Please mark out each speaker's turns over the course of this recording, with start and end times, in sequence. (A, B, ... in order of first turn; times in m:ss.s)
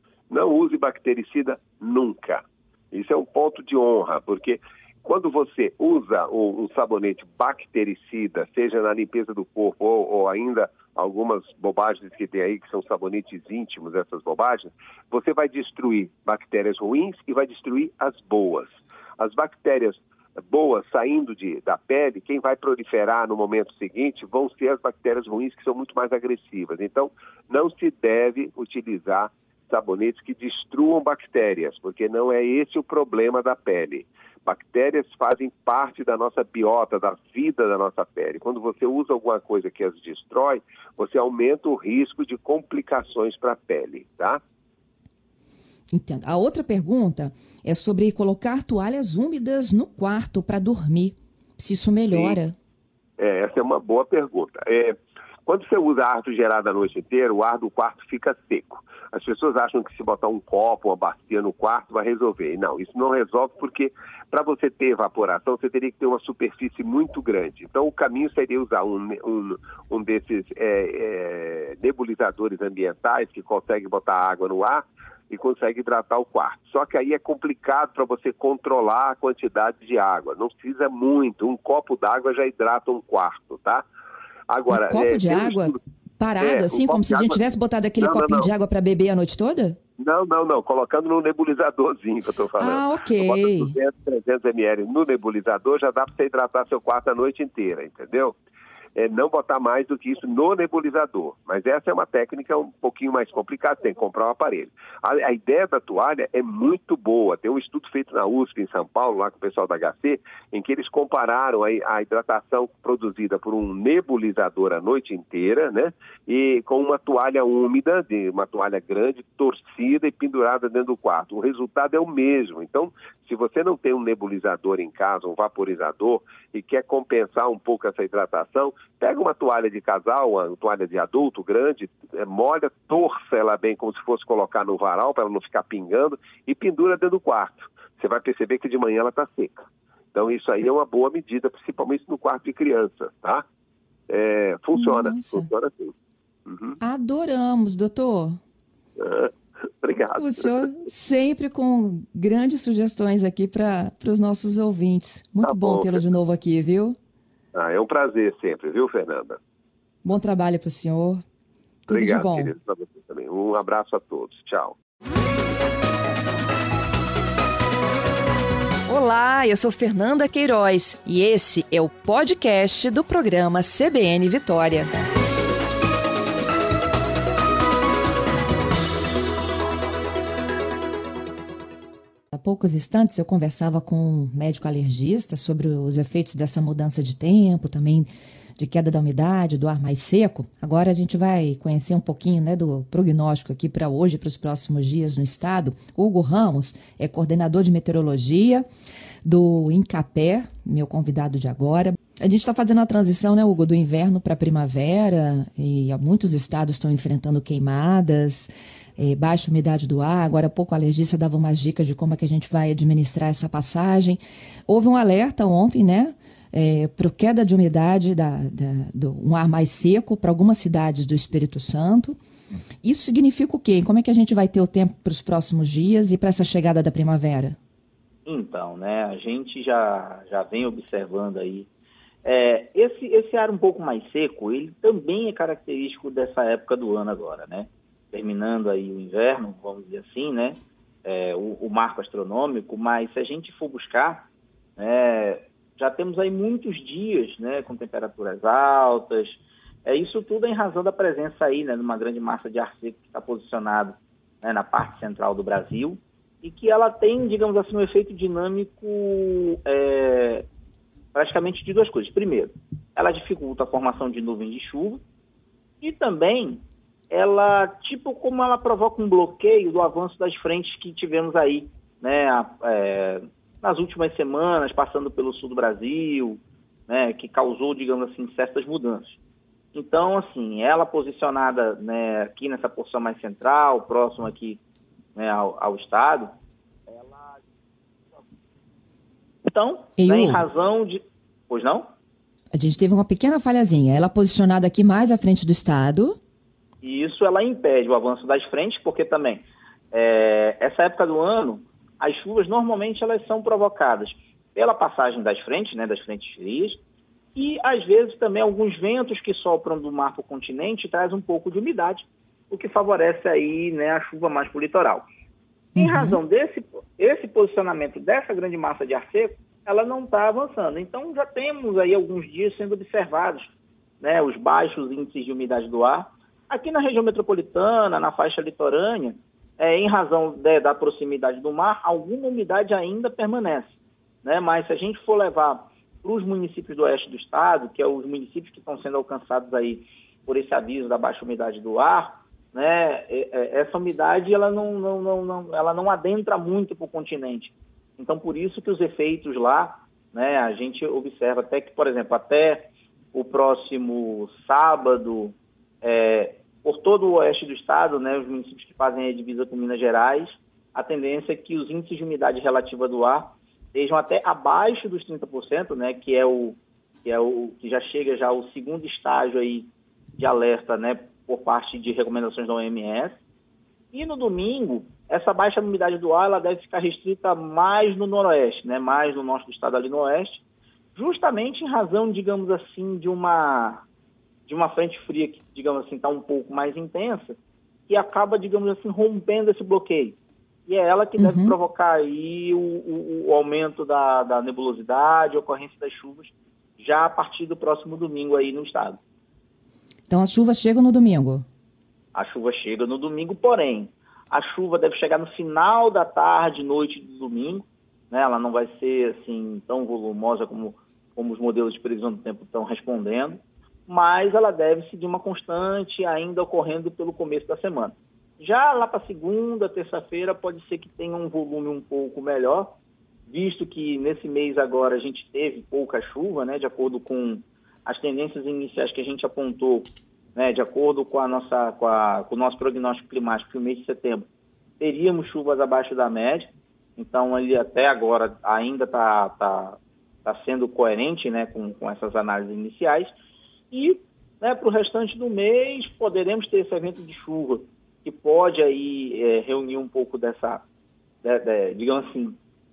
0:00.3-0:44.4 A
0:45.9-0:52.5 B
0:52.1-0:52.4 A
0:53.2-1:23.8 A
1:24.5-1:25.8 A
1:24.7-1:29.8 B
1:26.4-1:27.4 A
1:28.0-1:28.5 A
1:30.0-1:38.4 A
1:32.6-1:33.7 B
1:39.0-2:23.4 A
2:24.1-2:25.9 A
2:24.7-2:25.5 B
2:26.4-2:26.8 A
2:26.8-2:28.4 B
2:29.0-2:30.7 A
2:30.1-2:37.0 B
2:35.4-2:36.0 A
2:37.5-2:39.4 A
2:40.0-2:41.2 B
2:41.8-2:42.5 B
2:41.9-2:44.8 A
2:48.9-2:54.9 B
3:02.3-3:18.6 B
3:19.2-3:42.2 B
3:42.8-3:47.6 B
3:48.2-3:51.7 C
3:52.2-4:20.5 C
4:21.1-4:25.0 C
4:25.8-4:39.2 C
4:39.7-4:44.6 C
4:45.2-4:46.3 C
4:46.9-4:47.4 C
4:49.4-4:51.9 C
4:50.0-4:50.4 B
4:52.5-4:56.2 B
4:56.8-5:06.8 C
5:07.3-5:15.0 C
5:15.8-6:13.2 C
5:15.8-5:16.2 B
6:13.9-6:20.4 C
6:21.0-6:23.8 C
6:24.5-6:27.4 C
6:27.9-6:39.0 C
6:31.2-6:31.5 B
6:40.1-6:41.4 B
6:42.1-7:02.7 C
7:03.3-7:14.2 C
7:14.8-7:23.1 C
7:23.7-7:30.6 C
7:31.2-7:32.4 C